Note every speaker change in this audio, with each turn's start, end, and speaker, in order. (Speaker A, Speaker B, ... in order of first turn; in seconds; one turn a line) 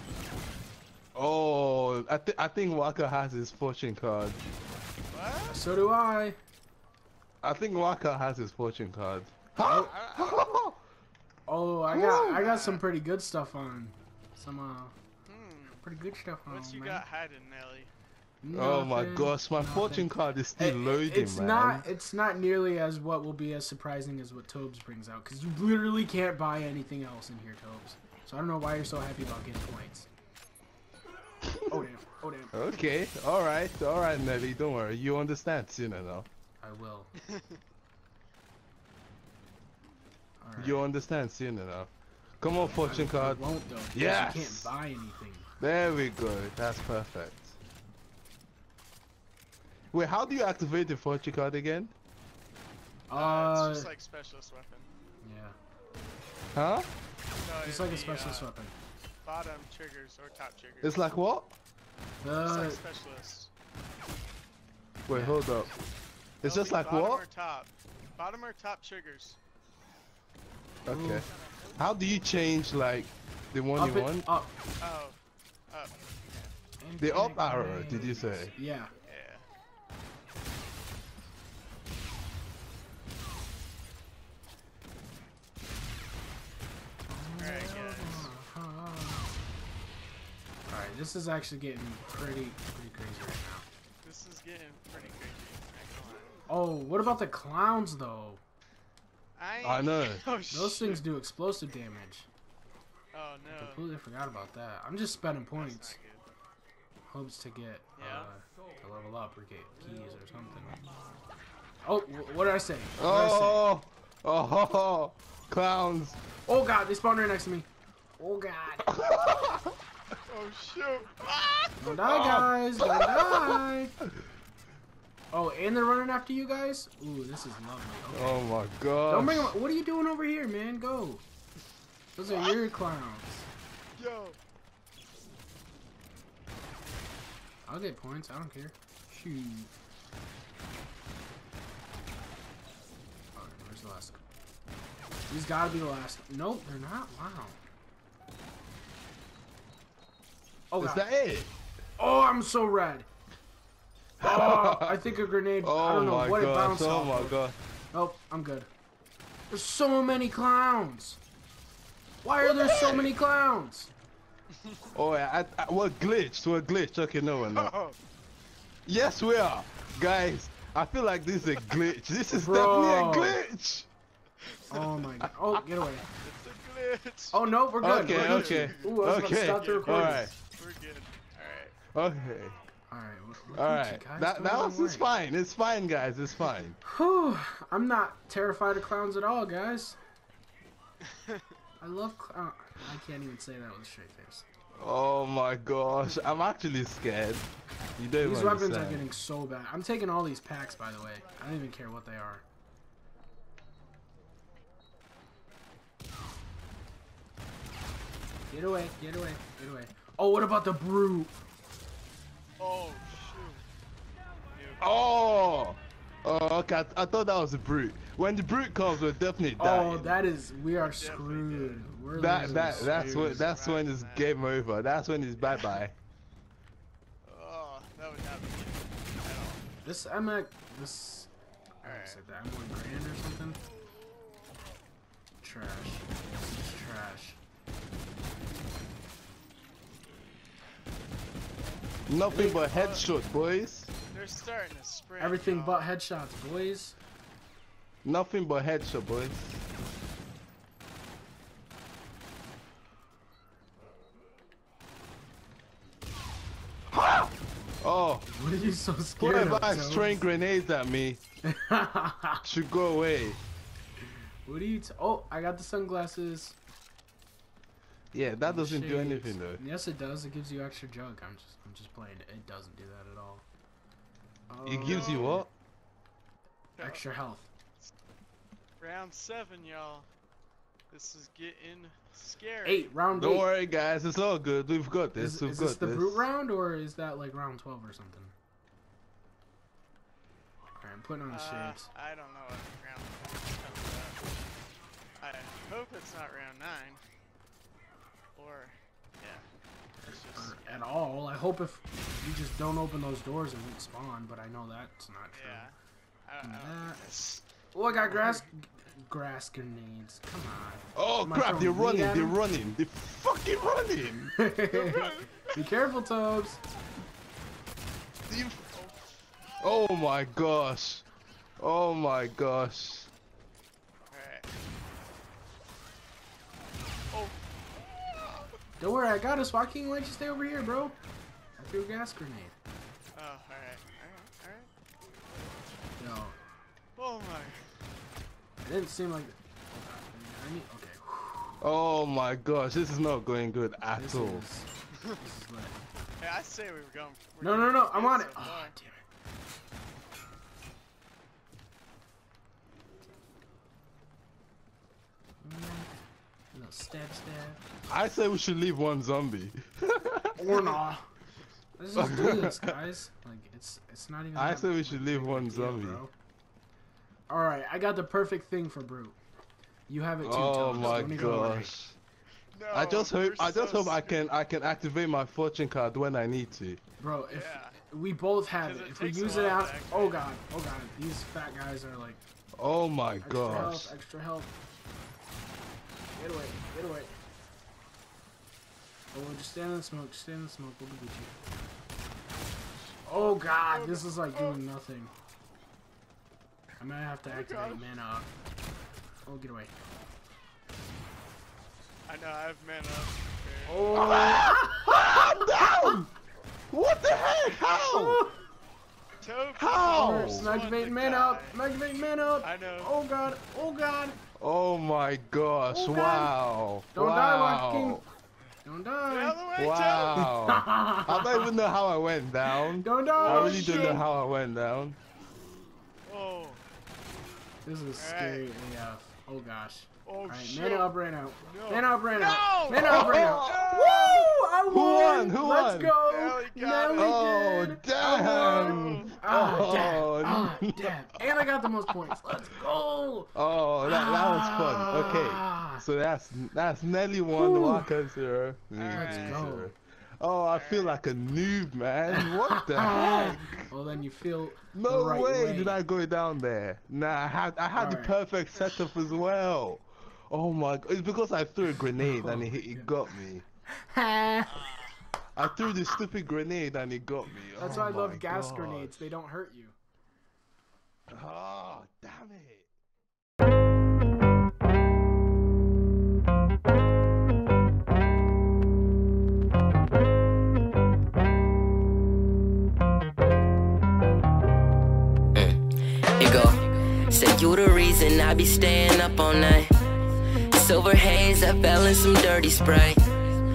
Speaker A: 1.1-4.5
Speaker B: 5.1-5.7
Speaker C: 5.5-6.4
Speaker A: 7.4-10.8
Speaker C: 9.6-9.9
Speaker B: 9.6-10.4
Speaker C: 11.5-14.9
Speaker A: 11.9-12.5
Speaker B: 12.2-12.8
Speaker B: 15.2-15.8
Speaker C: 15.8-17.0
Speaker B: 16.5-17.9
Speaker C: 18.4-30.1
Speaker A: 18.5-21.9
Speaker A: 31.4-31.9
Speaker C: 31.7-32.5
Speaker A: 32.5-36.3
Speaker C: 36.6-37.1
Speaker B: 37.2-37.6
Speaker C: 40.4-40.8
Speaker A: 40.6-43.4
Speaker C: 42.7-45.5
Speaker A: 43.9-44.7
Speaker A: 45.6-47.6
Speaker A: 49.9-51.9
Speaker C: 53.1-53.9
Speaker B: 53.1-54.9
Speaker C: 55.2-55.6
Speaker A: 56.5-56.9
Speaker B: 57.4-58.5
Speaker C: 57.6-58.7
Speaker B: 59.2-61.1
Speaker A: 60.8-61.5
Speaker C: 62.2-62.8
Speaker B: 62.4-63.5
Speaker A: 65.0-65.7
Speaker C: 65.1-65.6
Speaker A: 66.4-67.2
Speaker B: 66.4-69.4
Speaker A: 70.8-71.2
Speaker C: 70.9-71.2
Speaker A: 71.8-74.3
Speaker C: 73.7-74.5
Speaker B: 74.8-76.5
Speaker C: 76.8-78.9
Speaker A: 77.0-78.5
Speaker B: 79.0-79.5
Speaker C: 87.1-89.3
Speaker B: 87.4-88.3
Speaker C: 90.7-93.7
Speaker B: 94.0-96.4
Speaker C: 96.5-98.4
Speaker B: 99.4-101.0
Speaker A: 99.6-100.2
Speaker C: 100.5-102.3
Speaker B: 103.1-103.8
Speaker C: 103.5-106.0
Speaker B: 105.5-106.2
Speaker C: 107.1-110.8
Speaker B: 108.0-108.3
Speaker C: 111.8-113.7
Speaker A: 113.0-116.2
Speaker C: 116.5-117.7
Speaker C: 118.2-119.0
Speaker A: 118.8-119.7
Speaker B: 120.3-122.3
Speaker C: 121.8-123.9
Speaker A: 121.9-123.6
Speaker C: 125.3-128.5
Speaker A: 128.1-129.5
Speaker C: 129.1-131.2
Speaker C: 132.2-133.5
Speaker B: 132.3-132.6
Speaker B: 133.9-134.4
Speaker C: 137.7-139.7
Speaker C: 143.3-144.2
Speaker C: 145.3-147.6
Speaker C: 150.7-151.0
Speaker A: 150.8-151.5
Speaker C: 152.0-153.1
Speaker C: 154.2-157.4
Speaker A: 154.2-155.0
Speaker A: 155.6-157.6
Speaker C: 157.9-158.7
Speaker C: 159.5-161.2
Speaker C: 162.2-163.9
Speaker A: 162.4-163.1
Speaker A: 164.9-167.7
Speaker B: 167.4-168.0
Speaker A: 168.8-173.9
Speaker C: 172.3-173.4
Speaker B: 174.5-174.9
Speaker C: 174.7-176.1
Speaker A: 175.2-175.6
Speaker B: 176.2-181.8
Speaker C: 177.3-180.3
Speaker A: 177.8-180.3
Speaker A: 181.9-182.5
Speaker C: 182.9-185.1
Speaker A: 183.5-186.8
Speaker C: 186.8-190.0
Speaker C: 191.8-194.4
Speaker A: 194.8-197.5
Speaker A: 198.0-199.1
Speaker C: 198.2-202.4
Speaker C: 208.5-211.4
Speaker B: 212.6-213.6
Speaker B: 214.5-214.9
Speaker A: 214.8-220.2
Speaker C: 219.6-223.5
Speaker B: 220.7-224.4
Speaker A: 222.1-225.9
Speaker B: 225.5-225.8
Speaker B: 227.2-229.6
Speaker C: 229.8-231.3
Speaker C: 231.8-233.6
Speaker B: 231.8-232.2
Speaker C: 235.4-237.4
Speaker A: 242.1-243.9
Speaker C: 242.3-242.8
Speaker B: 242.7-243.0
Speaker B: 244.1-245.9
Speaker C: 245.2-246.9
Speaker A: 248.0-249.6
Speaker A: 256.9-258.2
Speaker C: 258.3-260.2
Speaker A: 259.2-261.2
Speaker C: 261.4-262.4
Speaker A: 262.4-263.4
Speaker C: 264.4-266.6
Speaker A: 268.1-269.6
Speaker C: 268.4-273.4
Speaker C: 274.5-275.5
Speaker A: 274.6-275.5
Speaker B: 274.8-275.4
Speaker B: 276.8-277.0
Speaker C: 276.8-277.5
Speaker B: 278.8-280.1
Speaker B: 280.9-282.9
Speaker C: 282.6-283.5
Speaker A: 283.1-286.2
Speaker C: 285.1-288.3
Speaker C: 290.8-291.9
Speaker B: 291.3-294.3
Speaker B: 295.2-297.0
Speaker B: 298.4-299.5
Speaker C: 300.0-305.6
Speaker B: 300.0-300.9
Speaker B: 305.3-308.4
Speaker C: 306.4-307.0
Speaker C: 307.7-312.4
Speaker A: 310.9-314.3
Speaker C: 314.4-316.6
Speaker B: 314.7-315.6
Speaker A: 318.3-318.7
Speaker B: 318.7-319.0
Speaker A: 319.6-321.0
Speaker A: 321.6-323.1
Speaker B: 324.1-324.5
Speaker B: 327.1-327.4
Speaker C: 328.8-330.9
Speaker C: 331.6-332.5
Speaker B: 333.1-334.7
Speaker C: 336.0-336.4
Speaker B: 336.9-337.7
Speaker C: 338.6-341.5
Speaker A: 341.6-344.4
Speaker C: 343.9-345.8
Speaker B: 346.2-348.7
Speaker C: 347.4-349.0
Speaker C: 355.4-355.9
Speaker C: 356.5-357.6
Speaker A: 357.9-360.8
Speaker C: 360.4-361.1
Speaker C: 361.8-366.1
Speaker A: 361.9-362.7
Speaker A: 364.3-366.0
Speaker C: 367.3-369.2
Speaker C: 369.9-371.7
Speaker A: 370.2-372.0
Speaker B: 370.7-371.2
Speaker B: 372.5-374.2
Speaker A: 372.7-376.8
Speaker C: 377.0-382.2
Speaker B: 377.3-377.8
Speaker B: 378.6-380.2
Speaker A: 382.6-383.9
Speaker C: 383.2-384.5
Speaker C: 386.1-387.1
Speaker C: 389.1-391.3
Speaker B: 392.9-394.6
Speaker C: 393.1-395.1
Speaker C: 396.8-398.3
Speaker B: 397.2-397.9
Speaker C: 399.2-399.7
Speaker B: 402.1-404.3
Speaker C: 403.7-406.1
Speaker A: 403.9-406.0
Speaker A: 406.7-408.2
Speaker C: 407.8-408.3
Speaker B: 409.2-411.6
Speaker A: 409.6-410.5
Speaker C: 409.9-414.2
Speaker B: 412.4-413.0
Speaker A: 414.4-418.0
Speaker C: 415.7-416.4
Speaker C: 416.9-418.0
Speaker C: 418.6-419.4
Speaker B: 419.1-420.2
Speaker A: 419.6-425.0
Speaker C: 420.1-421.5
Speaker C: 422.5-424.0
Speaker B: 423.1-424.0
Speaker B: 426.1-426.6
Speaker C: 427.6-433.5
Speaker B: 428.0-428.5
Speaker B: 430.1-430.9
Speaker B: 431.4-434.3
Speaker A: 432.8-436.0
Speaker C: 434.0-445.8
Speaker B: 436.0-437.1
Speaker A: 436.9-441.4
Speaker B: 438.0-439.2
Speaker A: 443.3-453.7
Speaker C: 447.3-447.9
Speaker B: 448.7-449.4
Speaker C: 448.9-449.7
Speaker B: 450.5-451.0
Speaker C: 452.1-455.8
Speaker A: 454.7-463.4
Speaker C: 457.7-458.1
Speaker C: 461.7-462.9
Speaker C: 463.7-464.7
Speaker B: 464.4-465.0
Speaker A: 465.4-469.1
Speaker C: 465.6-465.9
Speaker C: 467.6-469.8
Speaker A: 471.1-472.7
Speaker D: 485.3-485.6
Speaker D: 486.2-489.7
Speaker D: 490.5-493.0